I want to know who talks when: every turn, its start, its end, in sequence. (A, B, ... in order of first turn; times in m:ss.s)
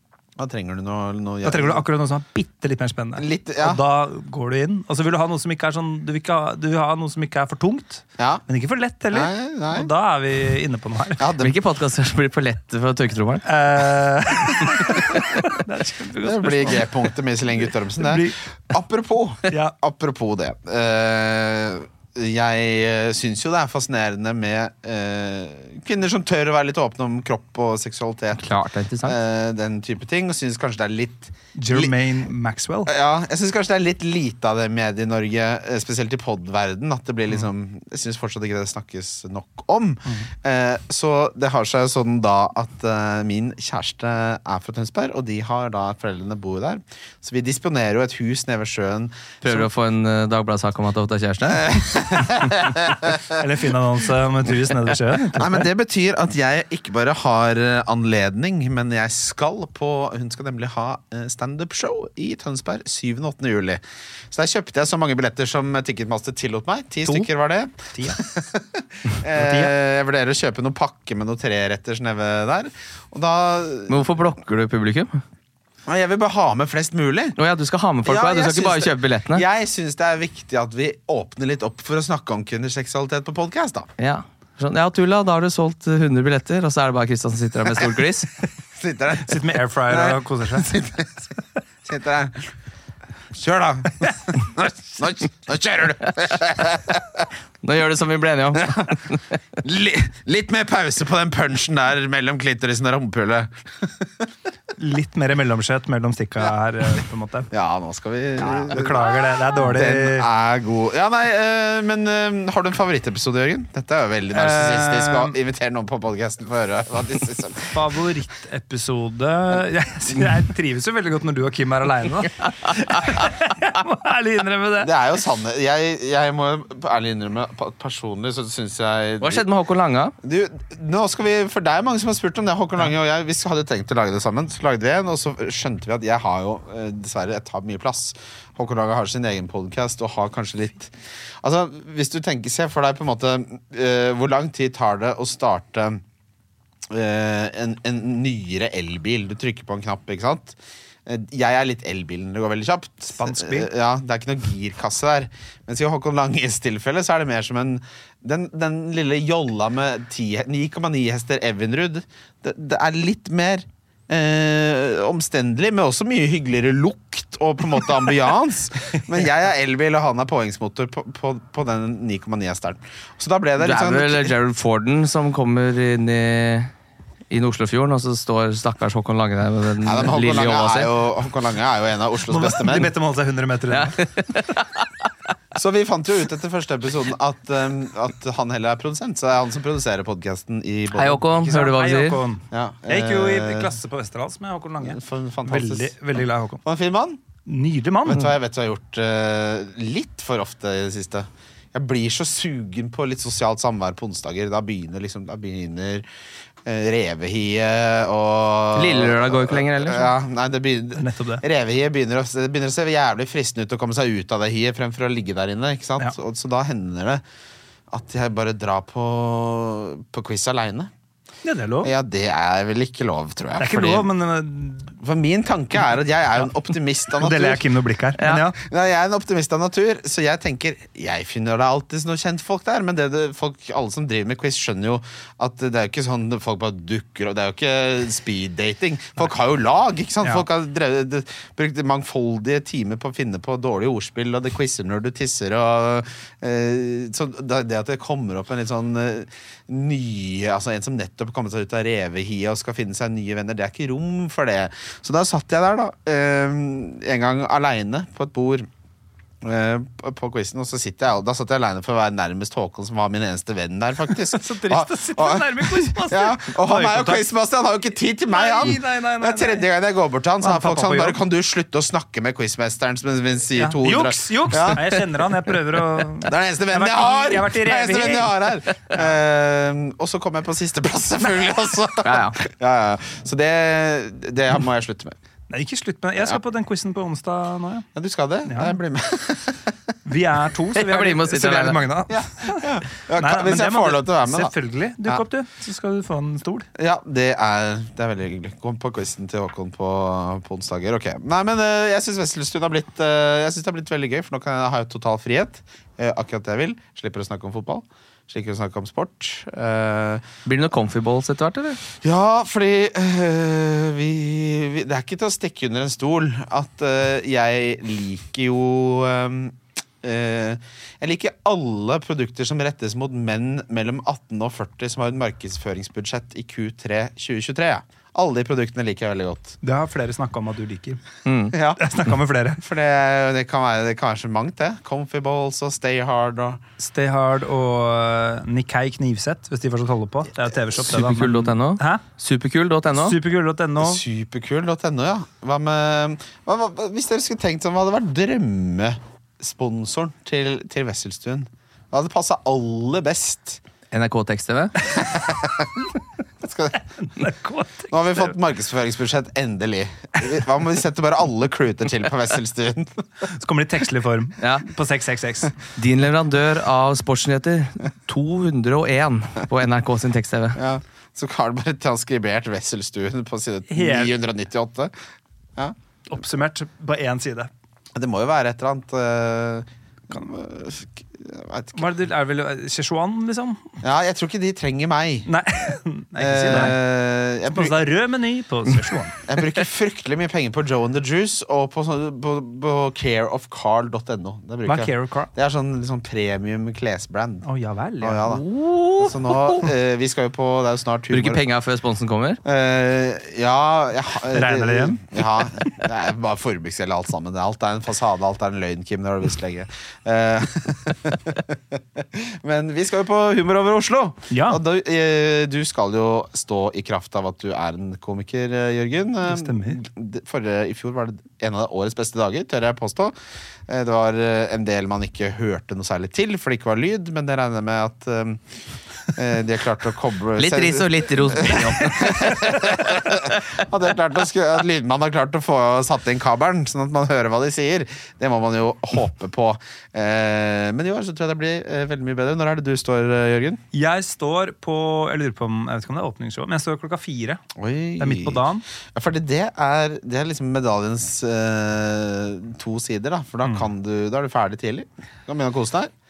0:00.4-0:01.8 A
0:01.4-0:11.2 B
0:03.2-0:03.8 A
0:08.2-0:08.4 A
0:09.1-0:09.9 A
0:11.2-0:11.6 A
0:11.4-0:13.4 C
0:13.4-0:17.1 B
0:14.9-0:15.2 C
0:16.2-0:31.9 A
0:18.0-0:18.3 B
0:19.5-0:19.7 B
0:28.4-0:29.2 C
0:31.5-0:32.9 B
0:32.8-0:49.6 A
0:49.4-0:51.8 C
0:51.5-0:53.4 A
0:53.2-0:55.7 B
0:55.3-1:14.0 A
1:07.9-1:08.2 B
1:09.3-1:09.7 B
1:13.9-1:15.2 C
1:15.8-1:17.4 A
1:17.4-1:19.4 C
1:18.0-1:23.9 A
1:24.0-1:28.3 C
1:28.8-1:32.5 A
1:29.2-1:30.7 B
1:33.3-1:37.2 A
1:37.6-1:39.2 C
1:38.5-1:39.0 A
1:39.6-1:44.3 A
1:44.8-1:47.5 B
1:47.5-1:57.7 A
1:48.4-1:50.3 B
1:54.3-1:55.3 B
1:57.7-2:04.9 B
2:04.8-2:09.4 A
2:09.2-2:10.1 C
2:10.2-2:26.0 A
2:26.9-2:54.3 A
2:33.1-2:33.7 B
2:53.6-2:56.7 C
2:57.3-3:00.9 C
2:59.8-3:02.9 A
3:02.3-3:04.0 B
3:03.7-3:05.1 C
3:05.5-3:11.2 A
3:10.9-3:12.2 C
3:11.3-3:16.6 B
3:12.5-3:13.7 A
3:14.8-3:15.9 A
3:16.6-3:17.2 A
3:17.4-3:18.3 B
3:18.0-3:26.0 A
3:26.6-3:37.2 A
3:28.7-3:30.1 C
3:30.9-3:31.4 B
3:37.9-3:40.9 A
3:41.4-3:41.9 B
3:41.8-3:44.1 A
3:43.6-3:44.9 B
3:45.0-3:47.6 A
3:47.1-3:48.6 B
3:48.2-3:48.4 C
3:48.6-4:18.7 A
4:19.4-4:35.2 A
4:24.2-4:27.2 B
4:28.3-4:29.6 B
4:30.4-4:31.2 B
4:33.6-4:38.3 B
4:36.2-4:45.2 A
4:42.0-4:42.4 C
4:45.5-4:47.9 B
4:47.9-4:49.8 A
4:48.4-4:48.8 B
4:50.0-4:56.7 B
4:50.8-4:51.8 C
4:52.1-4:54.5 A
4:56.8-5:10.2 A
5:10.4-5:11.8 C
5:12.0-5:29.6 A
5:29.6-5:31.0 B
5:31.2-5:31.6 C
5:31.5-5:31.9 A
5:31.8-5:32.6 B
5:32.6-5:36.6 A
5:36.8-5:42.0 B
5:40.8-5:43.2 C
5:43.0-5:44.0 B
5:43.8-5:53.6 A
5:53.9-5:54.8 C
5:54.9-5:55.9 A
5:56.4-5:56.8 A
5:57.0-5:58.3 B
5:57.9-6:03.0 A
6:03.3-6:05.5 B
6:05.8-6:10.6 C
6:10.6-6:14.9 A
6:13.7-6:14.1 B
6:16.1-6:17.5 B
6:17.9-6:21.8 A
6:21.7-6:23.6 B
6:23.8-6:25.3 A
6:25.2-6:26.8 B
6:26.2-6:27.8 A
6:27.5-6:29.2 B
6:29.2-6:37.4 A
6:34.6-6:35.3 B
6:37.4-6:38.3 B
6:38.0-6:38.4 A
6:38.2-6:39.7 C
6:39.0-6:41.4 A
6:41.1-6:42.4 C
6:42.4-7:03.1 A
6:44.3-6:45.2 B
6:54.3-6:54.6 B
6:59.2-6:59.8 B
7:03.7-7:08.4 A
7:09.1-7:23.6 A
7:10.4-7:13.5 C
7:23.7-7:27.4 B
7:27.5-7:35.9 A
7:28.0-7:28.6 B